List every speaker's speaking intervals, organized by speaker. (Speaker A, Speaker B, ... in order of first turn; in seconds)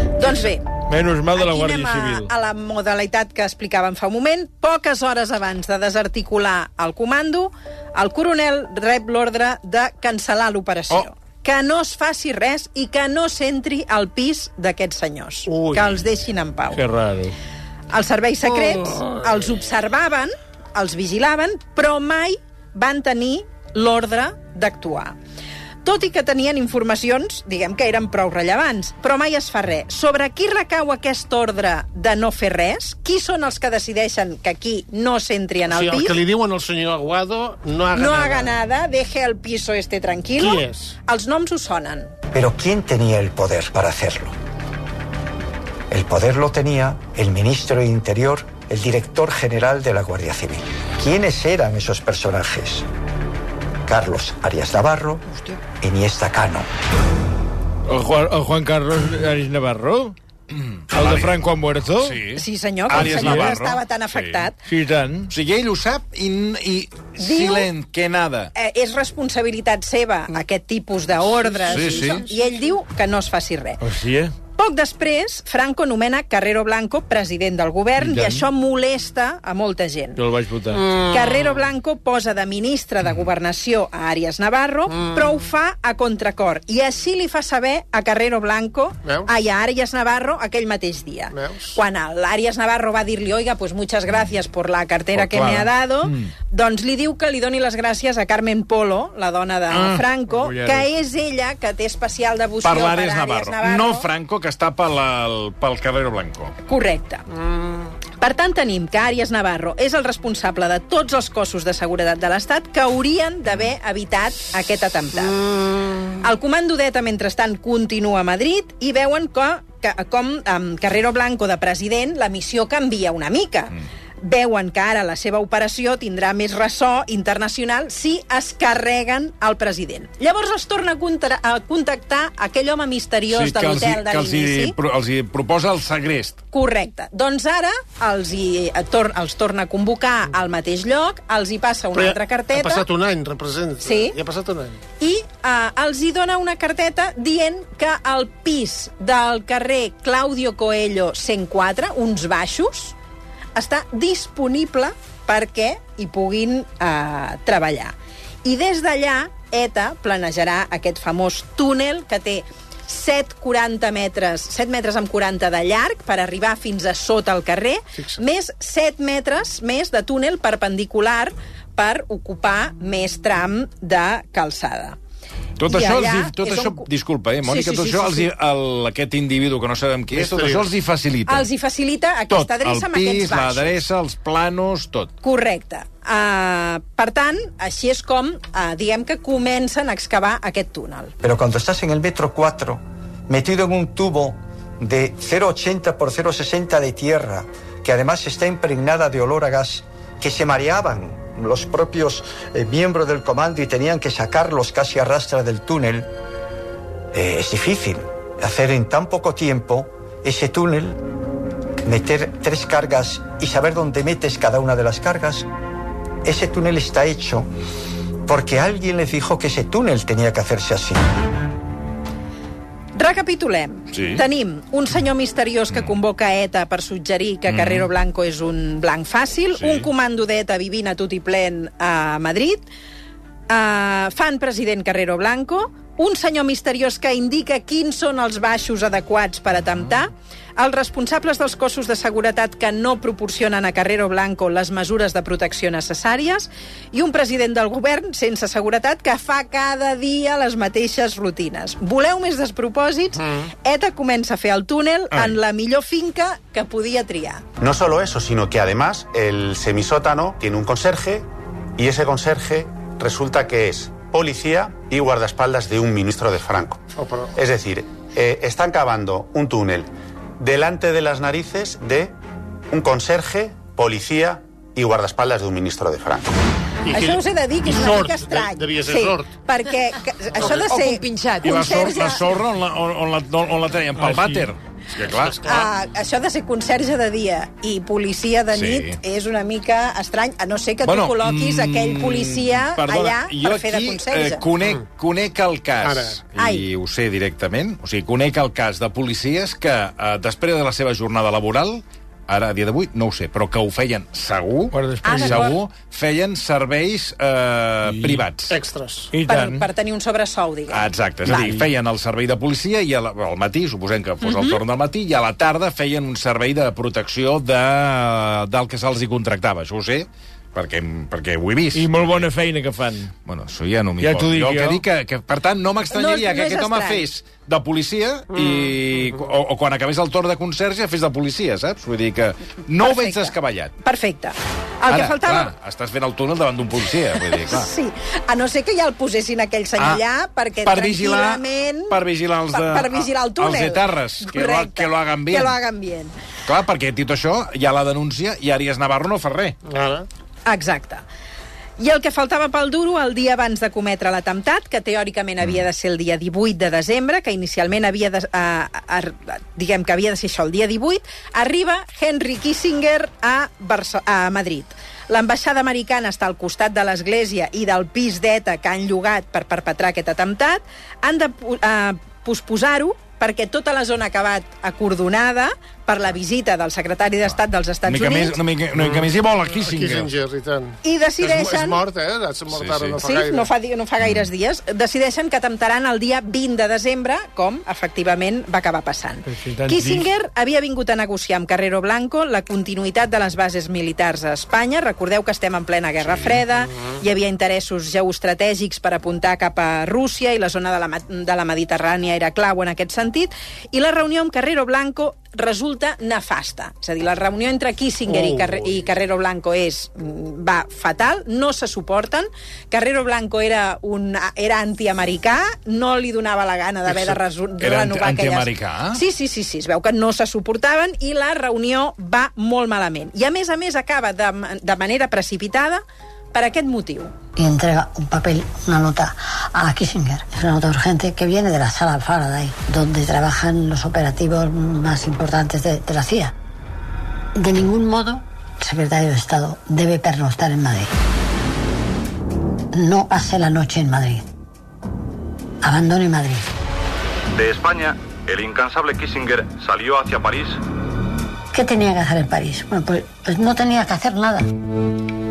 Speaker A: 0.2-0.7, 1.3-16.8, 17.9-25.1, 25.8-36.2, 37.9-42.1, 62.4-64.5, 67.2-67.7, 68.5-73.8, 74.5-80.2, 81.1-104.1, 106.7-107.2, 108.2-115.4, 116.2-134.7, 136.5-142.8, 143.8-144.2, 145.0-152.9, 153.6-175.0, 175.7-176.8, 177.4-178.3, 181.3-183.8, 185.2-191.1, 222.9-232.6, 233.5-257.4, 276.9-282.2, 285.4-294.4, 296.4-296.7, 305.0-305.6, 309.2-311.5, 314.2-314.6, 325.9-327.1, 332.8-335.5, 337.2-341.9, 342.5-346.1, 350.4-351.0, 351.8-378.4, 380.8-381.8, 383.0-425.8, 426.3-427.1
Speaker B: 0.8-2.3, 16.7-17.3, 57.9-60.1, 60.9-62.2, 62.9-63.5, 64.7-65.3, 73.8-74.3, 78.0-78.4, 80.2-80.8, 100.3-100.9, 284.0-284.5, 304.7-305.5, 307.9-308.2, 309.1-309.6, 311.2-311.6, 321.7-323.1, 324.0-324.8, 389.3-390.1
Speaker C: 15.5-16.0, 18.4-19.5, 35.7-38.5, 40.4-41.0, 71.4-72.2, 80.7-81.7, 84.9-85.3, 89.0-89.3, 91.3-91.8, 107.3-107.9, 115.5-116.0, 141.9-144.8, 167.9-168.2, 180.1-180.7, 253.2-253.5, 266.9-267.3, 276.9-279.3, 280.4-281.4, 285.1-285.6, 295.8-296.2, 308.5-309.1, 328.3-329.2, 349.6-350.1, 378.8-383.5, 408.1-408.9
Speaker D: 42.3-44.3, 45.9-52.9, 53.9-55.2, 55.8-56.7, 191.2-206.1, 207.1-211.0, 211.8-215.5, 216.2-217.5, 218.2-221.0
Speaker E: 60.5-61.3, 62.0-64.5, 65.3-68.5, 71.7-72.2, 95.1-96.3, 99.7-100.0, 102.6-106.5, 133.3-136.4, 175.6-181.4, 182.3-185.1, 223.9-224.2, 227.5-227.9, 229.6-229.9, 255.1-255.4, 281.4-285.6, 288.5-289.0, 290.8-308.5, 310.7-322.3, 323.2-333.7, 334.9-337.7, 340.6-345.6, 346.4-349.6, 377.3-380.1, 382.5-383.0, 384.0-384.3, 417.6-419.0
Speaker F: 257.6-266.8, 267.4-272.1, 272.7-276.3
Speaker G: 427.4-436.3, 437.4-440.9, 442.7-444.2, 445.6-446.5, 451.5-454.5
Speaker H: 447.3-450.6